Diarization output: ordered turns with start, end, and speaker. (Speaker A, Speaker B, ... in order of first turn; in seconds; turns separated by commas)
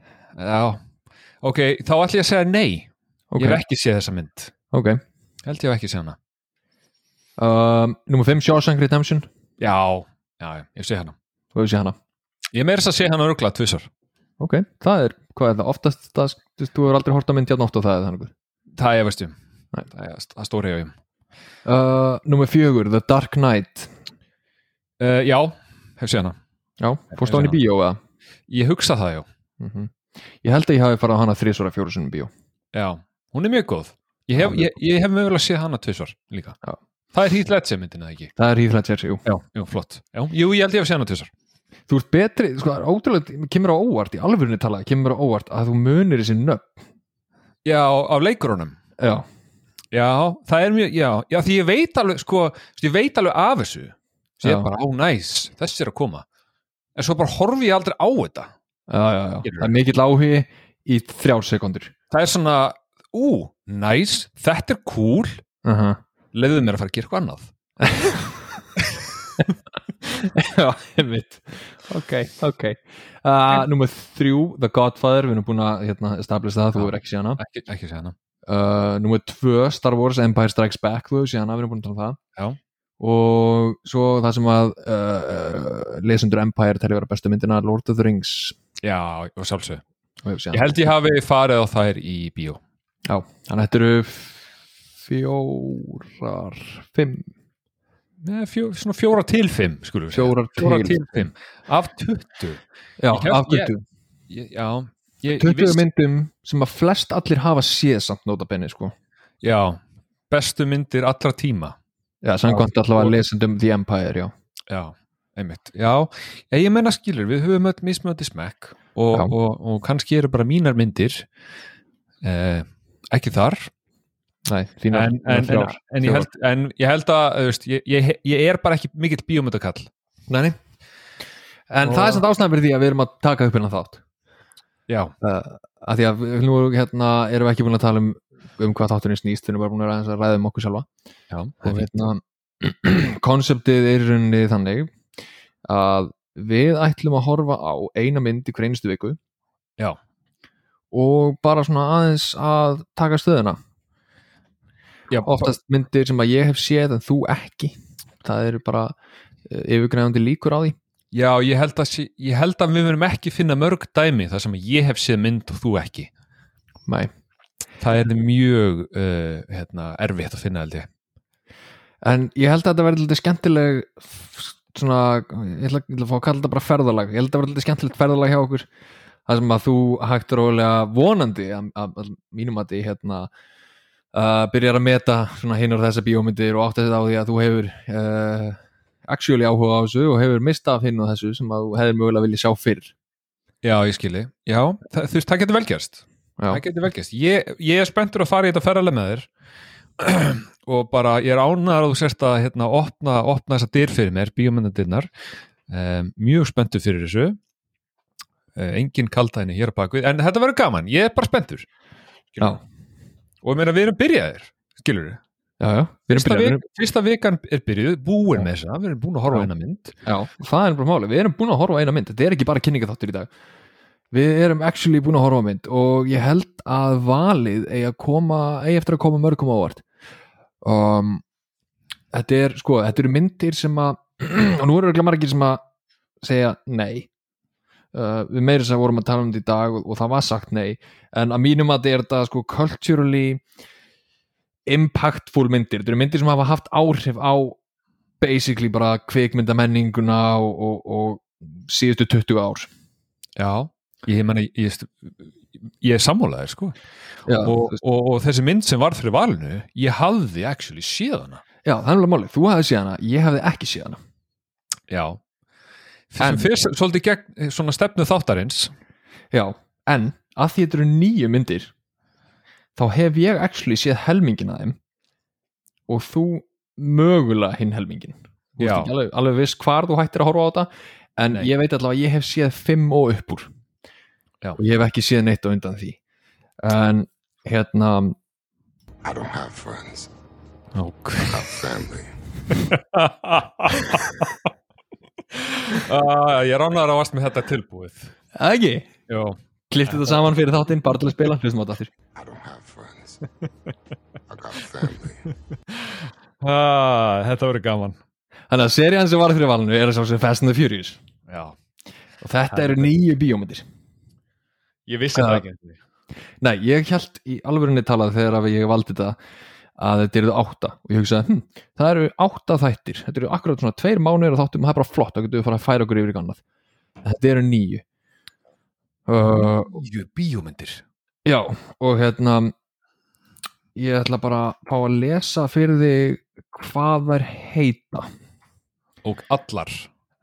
Speaker A: 0.4-0.8, Speaker A: 1.4-4.5, Speaker B: 3.3-3.6, Speaker B: 4.7-5.0, Speaker A: 5.4-6.2, Speaker B: 7.4-9.3, Speaker A: 9.6-11.2, Speaker B: 11.6-12.0, Speaker A: 12.5-13.9, Speaker B: 14.4-18.3, Speaker A: 18.8-19.4, Speaker A: 19.9-20.9, Speaker B: 21.6-23.9, Speaker A: 25.0-26.4, Speaker B: 26.8-28.0, Speaker A: 27.2-27.6, Speaker A: 28.5-29.3, Speaker B: 29.6-32.3, Speaker A: 32.7-36.6, Speaker B: 34.4-34.6, Speaker A: 37.1-38.3, Speaker B: 38.4-39.2, Speaker A: 39.2-41.3, Speaker B: 41.9-46.8, Speaker A: 47.6-48.8, Speaker B: 49.0-49.2, Speaker A: 49.9-56.2, Speaker A: 57.0-58.5, Speaker B: 58.9-61.9, Speaker A: 59.4-59.7, Speaker A: 62.1-65.4, Speaker B: 65.7-66.0, Speaker A: 66.3-67.5, Speaker B: 67.8-68.3, Speaker B: 70.1-77.4, Speaker A: 76.8-78.2, Speaker B: 78.5-82.2, Speaker B: 83.0-88.6, Speaker A: 88.8-89.8, Speaker B: 90.2-90.7, Speaker A: 90.5-92.6, Speaker B: 93.1-94.5, Speaker B: 95.0-97.3, Speaker A: 98.2-103.7, Speaker B: 100.1-101.0, Speaker B: 103.0-103.8, Speaker A: 104.3-105.8, Speaker B: 105.4-108.9, Speaker A: 109.4-111.8, Speaker B: 112.2-114.3, Speaker A: 112.5-113.2, Speaker A: 114.7-121.3, Speaker A: 122.2-123.7, Speaker B: 124.5-126.3, Speaker A: 124.9-129.9, Speaker B: 130.3-130.6, Speaker B: 131.7-134.0, Speaker A: 131.8-132.2, Speaker A: 134.9-135.1, Speaker B: 135.2-140.9, Speaker A: 141.3-141.9, Speaker B: 141.6-144.9, Speaker B: 145.7-149.2, Speaker B: 150.9-153.6, Speaker A: 155.1-155.6, Speaker B: 155.2-158.9, Speaker B: 159.5-160.8, Speaker A: 161.1-166.1, Speaker A: 167.8-170.9, Speaker B: 172.0-178.7, Speaker B: 179.3-183.3, Speaker B: 184.1-192.9, Speaker A: 193.6-199.3, Speaker A: 200.0-205.1, Speaker A: 205.7-207.4, Speaker A: 208.6-211.7, Speaker A: 213.4-215.2, Speaker B: 215.6-216.6, Speaker A: 216.1-219.9, Speaker B: 220.1-223.3, Speaker B: 224.1-229.8, Speaker B: 230.6-231.2, Speaker B: 232.1-235.6, Speaker B: 236.2-237.1, Speaker B: 237.9-243.4, Speaker B: 244.7-247.6, Speaker B: 248.2-252.7, Speaker A: 253.4-256.8, Speaker B: 257.3-257.8, Speaker A: 257.4-261.4, Speaker B: 261.6-264.0, Speaker A: 264.9-265.2, Speaker A: 266.1-268.7, Speaker B: 266.2-266.5, Speaker B: 269.3-271.7, Speaker B: 272.8-274.8, Speaker B: 275.9-283.5, Speaker A: 278.6-278.9, Speaker B: 284.6-286.0, Speaker B: 286.6-288.2, Speaker C: 289.0-290.1, Speaker A: 290.8-291.4, Speaker C: 291.2-292.5, Speaker A: 292.5-294.2, Speaker A: 295.3-298.1, Speaker B: 298.4-298.9, Speaker A: 299.1-299.4, Speaker B: 299.7-301.9, Speaker A: 299.9-300.2, Speaker C: 302.1-303.2, Speaker C: 304.3-305.3, Speaker A: 305.7-308.0, Speaker B: 308.5-311.0, Speaker A: 311.3-311.6, Speaker B: 312.2-313.6, Speaker A: 312.5-312.9, Speaker A: 314.9-315.8, Speaker B: 315.1-315.4, Speaker B: 316.4-319.2, Speaker B: 319.8-326.4, Speaker B: 327.1-327.8, Speaker B: 329.1-329.8, Speaker A: 329.2-330.8, Speaker B: 331.2-332.5, Speaker B: 333.8-338.1, Speaker A: 339.0-339.9